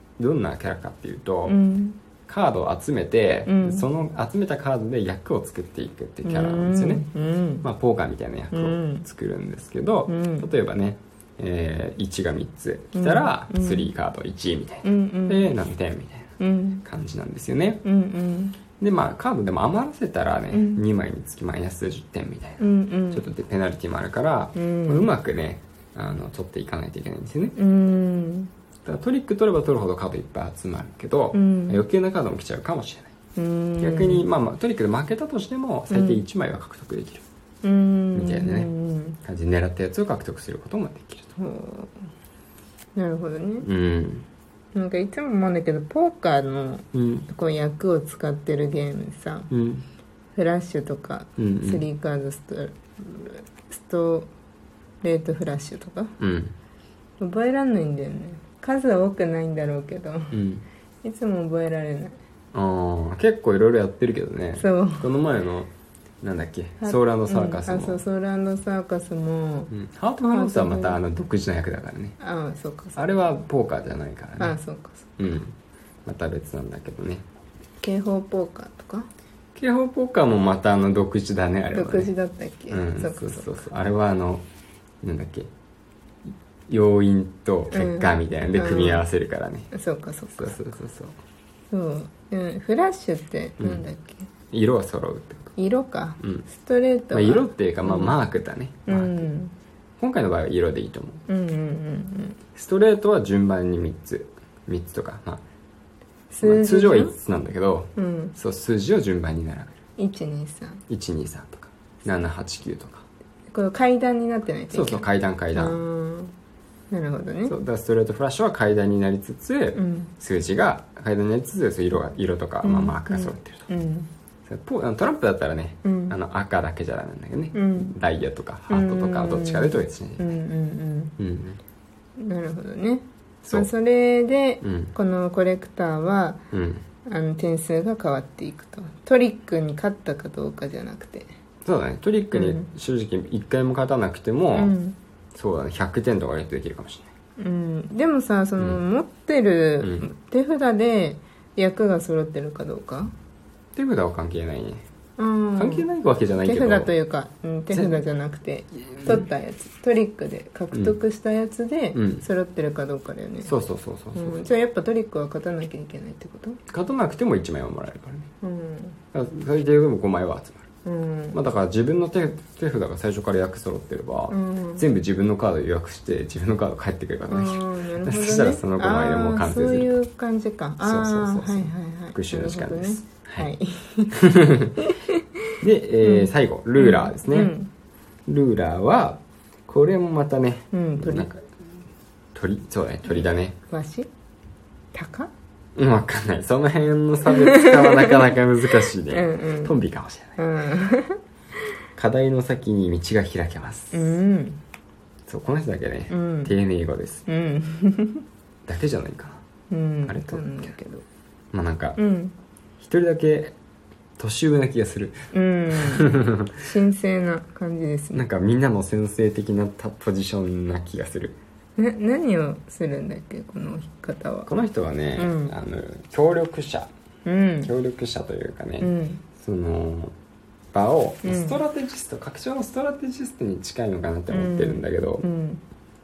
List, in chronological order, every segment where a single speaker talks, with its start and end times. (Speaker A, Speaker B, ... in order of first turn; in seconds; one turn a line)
Speaker A: 0.2-1.6
Speaker B: 1.5-2.0
Speaker A: 2.3-7.0
Speaker B: 3.5-3.9
Speaker B: 6.2-7.7
Speaker A: 7.6-16.3
Speaker B: 8.5-9.1
Speaker B: 10.1-10.5
Speaker B: 12.9-13.9
Speaker B: 14.8-15.5
Speaker B: 16.4-16.8
Speaker A: 16.8-17.8
Speaker B: 17.8-18.6
Speaker A: 18.8-27.6
Speaker B: 20.5-20.8
Speaker B: 22.6-23.3
Speaker B: 24.6-25.1
Speaker B: 27.6-28.5
Speaker A: 28.9-33.1
Speaker B: 31.3-31.8
Speaker B: 33.4-34.3
Speaker A: 33.8-37.2
Speaker B: 35.9-36.2
Speaker B: 37.6-39.2
Speaker A: 38.1-38.7
Speaker A: 39.2-41.4
Speaker B: 41.4-42.0
Speaker B: 43.0-43.7
Speaker A: 43.6-44.3
Speaker B: 44.8-49.5
Speaker A: 46.9-47.3
Speaker A: 49.5-49.9
Speaker B: 50.4-54.3
Speaker A: 51.4-51.8
Speaker B: 55.0-56.1
Speaker A: 56.2-56.5
Speaker B: 57.2-60.4
Speaker A: 60.3-60.6
Speaker B: 61.0-62.2
Speaker A: 62.5-65.7
Speaker B: 64.6-65.1
Speaker A: 66.2-68.0
Speaker B: 66.8-69.7
Speaker A: 69.7-72.2
Speaker B: 70.3-71.0
Speaker B: 72.2-73.4
Speaker A: 73.0-74.6
Speaker B: 74.4-75.2
Speaker A: 75.2-75.5
Speaker A: 76.0-77.2
Speaker B: 77.8-79.1
Speaker A: 79.6-82.1
Speaker B: 81.7-83.7
Speaker A: 82.7-84.4
Speaker A: 85.0-85.5
Speaker A: 86.7-89.7
Speaker B: 87.7-89.0
Speaker B: 89.7-90.7
Speaker A: 90.4-91.2
Speaker B: 91.7-94.3
Speaker A: 93.6-93.8
Speaker A: 94.5-95.5
Speaker B: 95.6-98.2
Speaker A: 96.2-96.5
Speaker A: 97.1-99.3
Speaker B: 98.9-99.5
Speaker A: 100.0-101.2
Speaker B: 101.3-102.4
Speaker A: 102.6-105.4
Speaker B: 106.3-107.2
Speaker A: 106.4-109.8
Speaker B: 108.0-108.3
Speaker B: 110.0-110.8
Speaker A: 110.9-113.0
Speaker B: 113.5-116.3
Speaker A: 114.7-115.8
Speaker B: 116.9-117.5
Speaker A: 117.5-123.7
Speaker B: 119.7-120.1
Speaker B: 122.6-124.1
Speaker A: 124.5-130.3
Speaker B: 125.8-126.2
Speaker B: 127.5-127.9
Speaker B: 128.7-131.2
Speaker A: 131.2-131.6
Speaker B: 132.2-136.4
Speaker A: 134.6-134.9
Speaker A: 136.5-136.8
Speaker B: 137.1-141.3
Speaker A: 141.6-144.7
Speaker B: 142.3-142.7
Speaker B: 144.5-145.0
Speaker A: 145.3-147.1
Speaker B: 147.4-153.1
Speaker A: 149.8-150.1
Speaker A: 153.8-154.8
Speaker B: 155.2-155.9
Speaker A: 155.6-156.9
Speaker B: 156.4-163.6
Speaker A: 158.9-159.3
Speaker A: 161.9-162.2
Speaker A: 163.4-164.4
Speaker B: 164.2-166.6
Speaker A: 166.7-168.3
Speaker B: 168.4-169.0
Speaker A: 169.1-170.7
Speaker B: 170.8-171.4
Speaker A: 171.3-179.9
Speaker B: 174.3-174.8
Speaker B: 177.3-184.2
Speaker A: 180.8-183.5
Speaker A: 184.2-184.7
Speaker B: 184.8-185.0
Speaker A: 185.6-187.5
Speaker B: 186.0-187.7
Speaker A: 188.3-191.4
Speaker B: 190.7-191.3
Speaker A: 192.3-193.6
Speaker B: 193.1-194.1
Speaker B: 194.9-195.3
Speaker A: 195.8-200.4
Speaker B: 197.3-198.2
Speaker B: 199.1-199.7
Speaker B: 200.4-201.2
Speaker A: 202.0-204.0
Speaker B: 203.9-204.6
Speaker A: 205.3-207.2
Speaker B: 206.1-206.5
Speaker B: 207.3-208.2
Speaker A: 208.7-209.4
Speaker B: 209.7-211.0
Speaker A: 210.1-210.7
Speaker A: 211.5-212.0
Speaker B: 212.0-212.3
Speaker A: 212.8-213.6
Speaker A: 214.2-215.2
Speaker B: 215.3-218.2
Speaker A: 215.8-216.5
Speaker A: 218.1-221.4
Speaker B: 221.8-224.5
Speaker A: 224.5-226.9
Speaker B: 225.2-225.5
Speaker B: 227.2-227.7
Speaker A: 227.6-230.1
Speaker B: 228.8-229.2
Speaker A: 230.7-235.2
Speaker B: 231.2-231.6
Speaker B: 234.3-235.6